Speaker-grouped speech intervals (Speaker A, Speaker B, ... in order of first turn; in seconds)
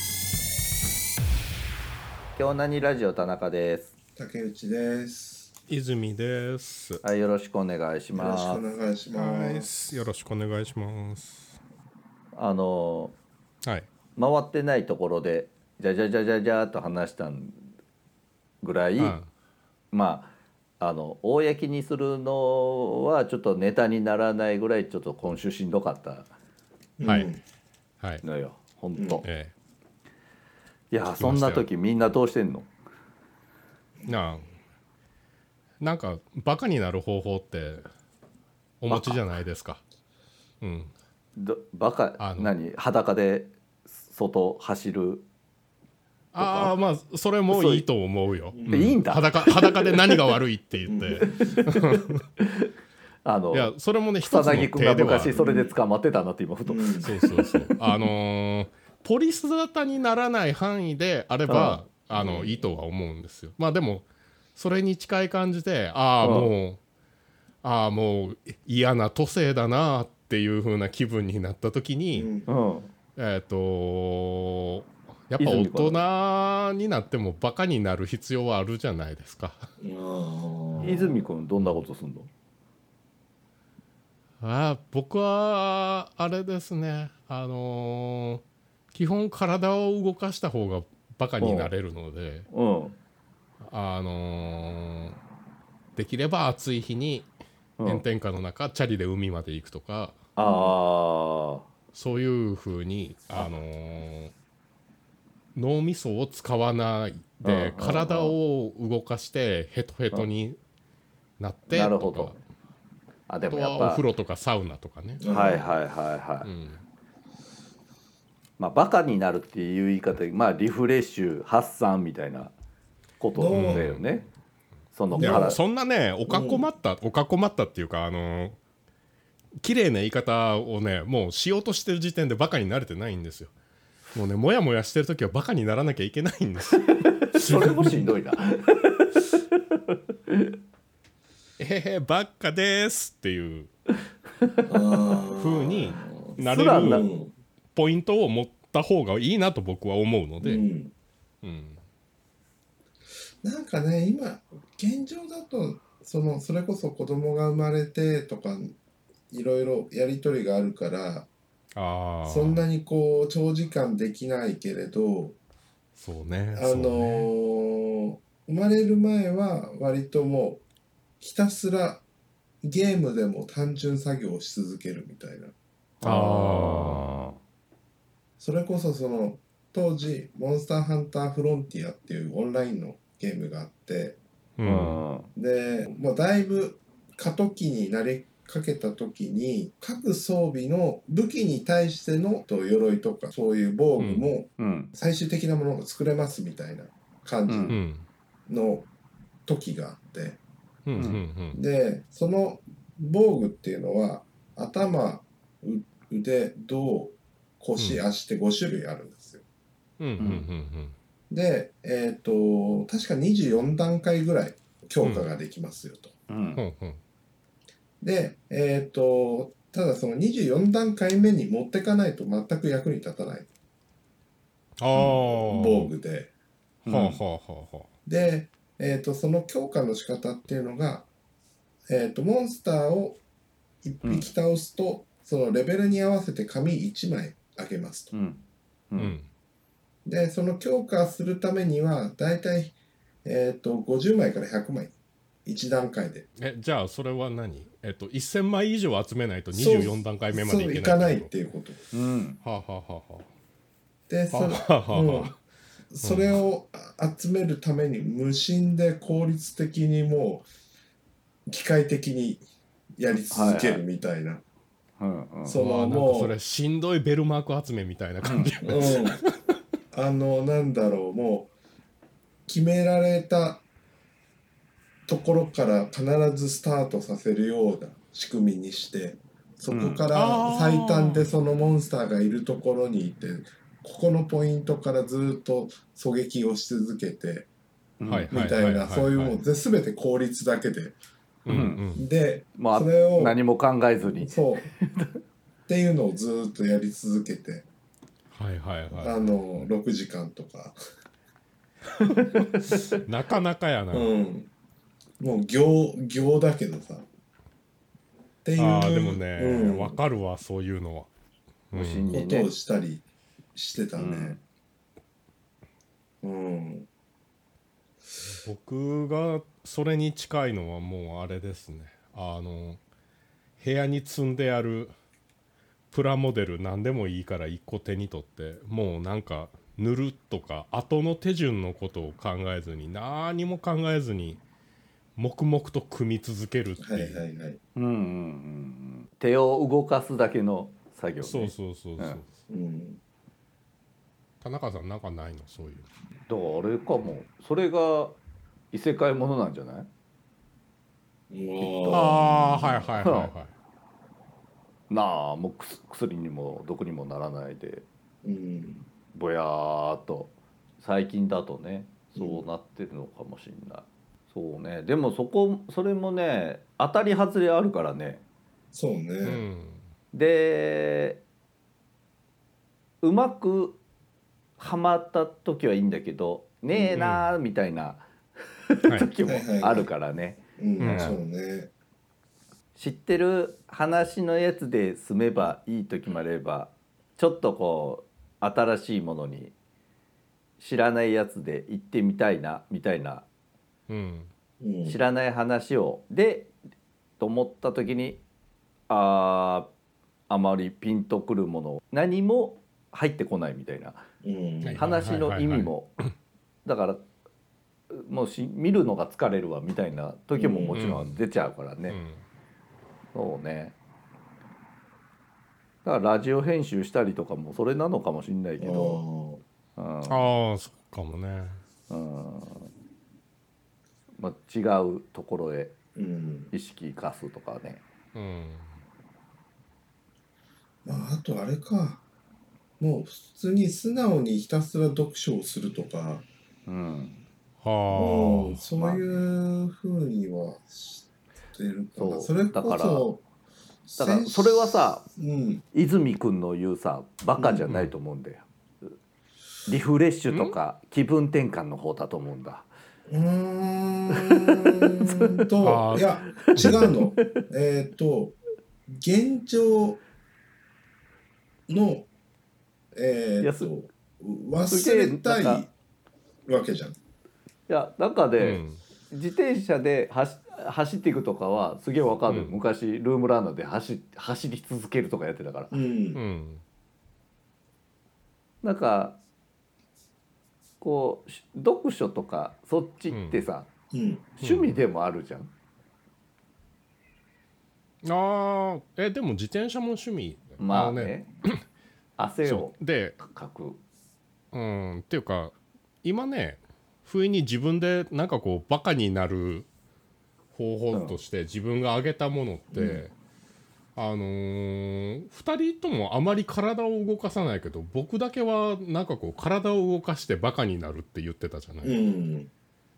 Speaker A: 2.4-3.9, 7.0-8.6, 12.3-13.2, 14.2-17.6, 18.6-19.2, 19.9-26.3, 28.2-29.2, 30.9-32.7, 38.9-39.2, 41.4-45.3, 46.4-46.7, 47.5-47.9, 48.7-50.4, 51.2-52.7, 53.2-53.7, 54.2-58.0, 61.5-61.8, 66.2-66.5, 72.5-72.9, 75.4-76.0, 80.8-82.3, 91.4-91.7, 92.5-93.0, 97.8-98.0, 100.4-101.7, 107.4-108.3, 111.7-112.4, 113.3-114.0, 115.2-116.5, 118.6-122.5, 123.2-124.3, 124.9-125.6, 137.2-140.5, 146.4-147.1, 176.0-177.4, 184.7-185.3, 194.6-194.9, 197.5-197.8, 200.9-201.2, 210.2-210.5, 216.3-216.6, 226.8-227.2, 238.1-239.2, 251.9-252.4, 263.3-263.8, 265.0-265.6, 268.2-268.5, 279.7-280.1, 288.0-288.3, 291.5-291.8, 292.6-295.2, 302.3-303.0, 311.7-312.5, 314.0-314.4, 337.8-342.2, 346.3-348.2, 348.7-349.9, 351.6-352.1, 353.0-353.3, 354.9-357.9, 359.1-368.2, 370.1-371.2, 373.0-373.8, 374.6-378.1, 378.7-381.1, 382.8-389.5, 390.6-393.3, 394.9-396.5, 397.2-398.2, 398.9-399.7, 400.3-404.1, 404.8-405.9, 406.6-407.0, 407.9-412.0, 413.1-413.8, 415.8-419.0, 419.8-420.2, 421.9-422.7, 424.2-425.8, 426.5-427.8, 436.7-437.2, 438.7-439.0, 442.0-443.1, 444.0-445.1, 445.7-448.4, 449.7-452.7, 454.1-455.4, 456.5-457.4, 463.4-463.7, 464.7-465.7, 467.7-475.8, 478.6-479.2, 480.8-483.7, 484.4-485.5, 490.6-491.3, 492.2-493.8, 500.9-501.2
Speaker B: 4.2-5.5, 8.1-9.7, 27.0-27.4, 28.9-29.2, 48.5-49.0, 50.9-51.4, 55.3-55.7, 56.7-57.1, 62.1-62.8, 72.1-72.5, 79.8-81.2, 100.4-100.7, 115.2-115.7, 123.4-123.9, 125.1-125.6, 126.3-126.6, 144.7-147.3, 150.4-150.9, 153.4-158.8, 159.3-161.3, 162.2-165.4, 166.6-170.6, 171.2-172.0, 172.6-175.5, 178.4-184.2, 185.3-197.8, 198.5-198.9, 199.5-200.4, 201.0-209.4, 211.3-216.1, 218.0-223.5, 224.9-226.3, 228.1-231.1, 231.9-233.2, 233.8-238.1, 240.1-246.3, 249.5-251.8, 254.1-255.3, 255.9-260.5, 261.5-262.4, 263.0-264.4, 265.4-266.3, 268.6-269.2, 269.9-271.5, 272.5-273.6, 275.1-287.5, 288.3-291.0, 291.6-293.4, 294.0-294.7, 295.7-297.7, 298.9-300.8, 303.9-304.5, 305.2-307.1, 308.4-310.0, 312.1-313.0, 313.6-314.4, 316.2-316.9, 336.8-337.6, 342.5-343.0, 351.3-353.0, 358.2-358.9, 362.1-362.4, 368.7-369.4, 376.7-377.0, 379.2-379.9, 380.6-381.7, 394.6-395.0, 404.2-404.8, 410.4-410.7, 418.6-419.4, 426.0-426.5, 430.9-432.0, 432.8-436.2, 437.9-443.2, 443.9-445.6, 453.1-458.4, 458.9-460.0, 461.7-462.1, 462.9-465.7, 466.5-467.0, 475.7-476.2, 483.9-484.3, 502.7-503.0, 511.8-512.5
Speaker C: 5.7-7.0, 9.2-11.6, 19.0-19.3, 27.0-27.3, 29.2-29.5, 31.2-31.7, 34.1-34.5, 35.8-37.9, 38.8-39.8, 40.6-40.9, 42.2-42.5, 46.3-52.2, 53.5-55.4, 57.0-66.8, 67.6-72.3, 73.2-79.7, 84.4-92.5, 93.6-95.2, 96.0-97.3, 97.8-100.2, 101.9-104.3, 105.5-110.6, 111.4-112.4, 113.5-115.2, 116.4-116.8, 123.5-124.0, 125.2-128.6, 129.6-133.5, 134.1-138.1, 141.6-143.7, 145.3-147.1, 147.8-150.6, 151.4-151.8, 161.7-162.7, 166.0-167.3, 176.0-177.2, 184.6-185.0, 194.0-194.3, 197.7-198.1, 200.9-201.6, 207.8-208.0, 210.0-211.0, 215.0-215.3, 216.6-217.0, 224.8-225.9, 226.9-227.9, 239.0-239.3, 246.4-251.3, 252.4-253.3, 254.3-255.4, 256.0-256.4, 265.6-269.3, 280.1-281.4, 288.1-289.4, 291.4-292.0, 298.3-299.2, 302.9-304.1, 308.6-311.1, 311.7-312.1, 318.3-322.8, 323.6-324.9, 325.9-334.4, 335.2-337.2, 341.2-342.3, 344.4-345.9, 351.9-353.5, 369.2-369.8, 377.0-377.3, 380.8-381.2, 393.9-394.3, 404.6-405.7, 410.7-411.2, 411.9-412.2, 420.1-421.6, 428.1-428.7, 437.6-438.6, 447.6-447.9, 450.3-450.6, 455.6-456.9, 468.4-468.8, 472.3-472.5, 476.1-476.6, 483.1-483.4, 484.4-484.8, 488.0-491.6, 492.4-493.2, 494.5-499.7, 500.5-503.1, 504.0-512.0